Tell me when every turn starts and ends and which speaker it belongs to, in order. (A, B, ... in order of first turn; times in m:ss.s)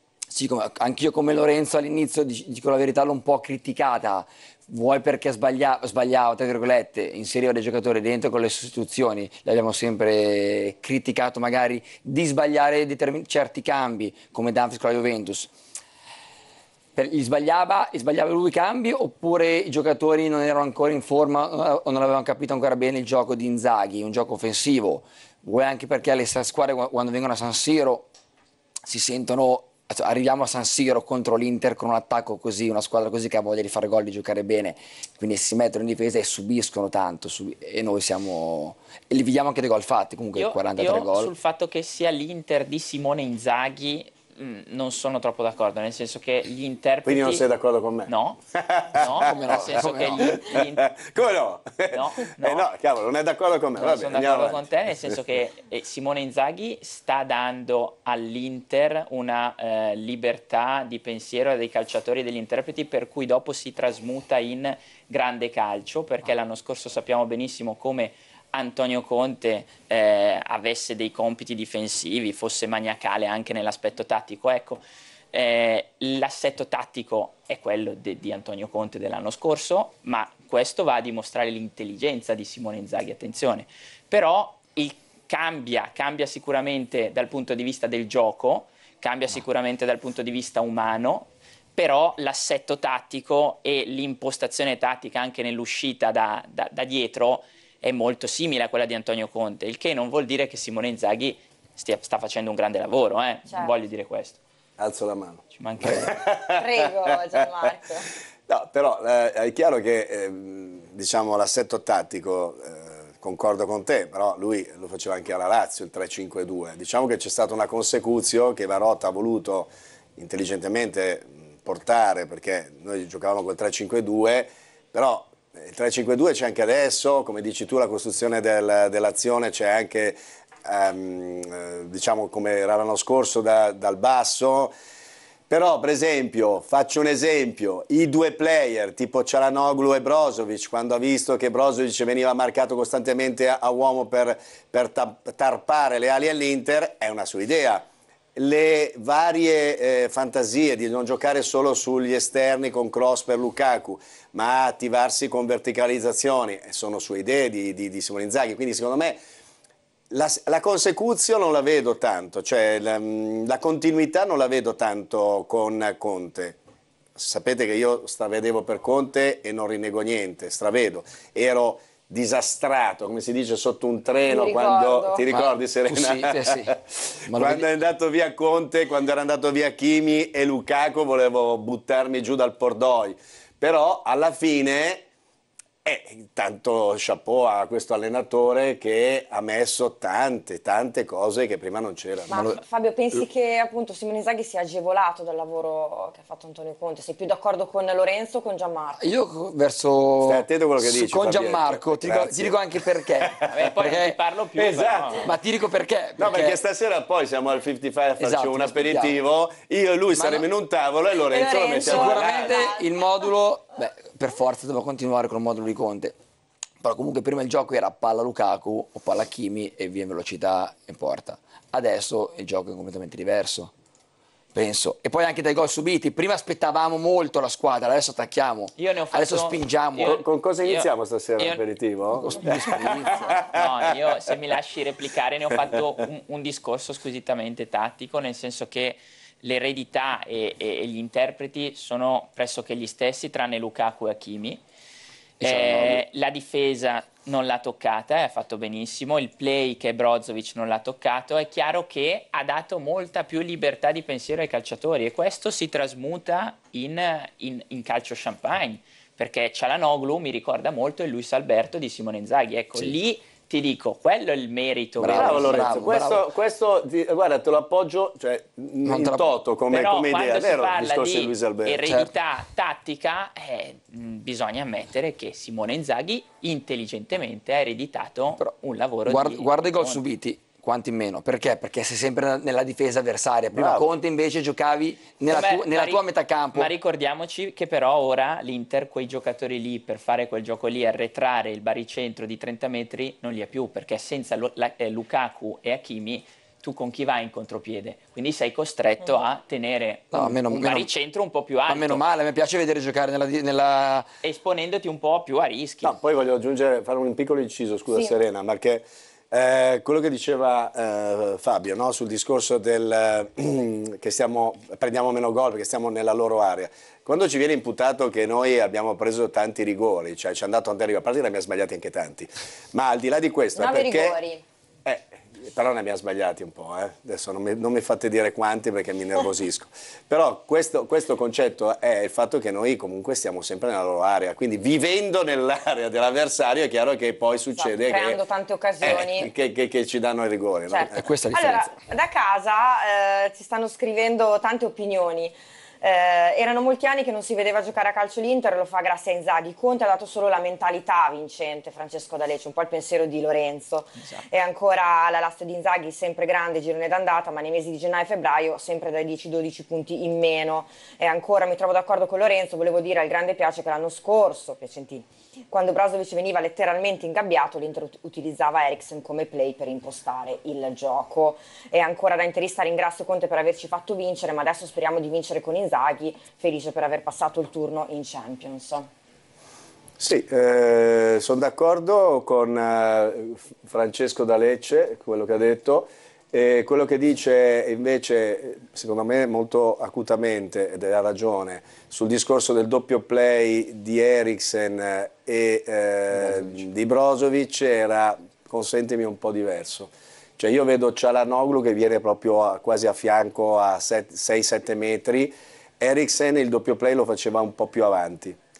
0:00.3-0:15.5 A
0:16.9-0:28.1 A
0:28.8-0:41.3 A
0:40.4-0:47.4 B
0:47.0-0:49.3 C
0:48.1-0:48.4 B
0:48.9-0:50.9 B
0:49.3-0:50.4 A
0:50.1-0:55.1 C
0:51.9-0:52.7 B
0:53.8-1:44.4 B
1:44.8-1:47.4 C
1:45.6-1:46.1 B
1:46.5-1:48.1 D
1:48.5-2:14.7 C
2:15.5-2:39.2 C
2:40.1-2:46.6 C
2:47.2-3:05.0 C
2:54.3-2:55.2 D
2:55.3-2:56.7 A
2:57.3-2:57.6 A
3:05.8-3:12.4 C
3:12.3-3:19.0 D
3:19.0-3:24.2 A
3:20.2-3:22.6 C
3:23.2-3:23.5 C
3:23.4-3:25.3 B
3:24.6-3:25.3 C
3:25.2-3:26.6 A
3:26.2-3:32.7 C
3:28.2-3:29.1 A
3:30.1-3:30.4 A
3:31.3-3:33.0 D
3:31.8-3:36.1 A
3:36.8-3:43.7 A
3:44.5-3:50.2 A
3:48.8-3:51.6 B
3:50.0-3:53.6 C
3:52.1-3:53.3 A
3:53.2-4:04.6 B
4:05.4-4:06.0 A
4:05.4-4:25.9 B
4:25.0-4:26.2 A
4:25.1-4:31.8 C
4:28.8-4:29.3 A
4:29.7-4:40.0 B
4:31.8-4:32.1 A
4:39.0-4:46.7 A
4:43.5-4:43.9 C
4:45.3-4:46.0 B
4:46.5-5:02.0 B
5:00.1-5:00.9 A
5:01.7-5:04.1 A
5:04.2-5:06.0 B
5:05.8-5:24.2 C
5:23.6-5:24.4 D
5:24.8-5:38.2 C
5:37.6-5:39.3 D
5:38.8-5:41.0 C
5:40.7-6:18.9 D
5:40.9-5:41.7 A
6:20.0-6:48.4 C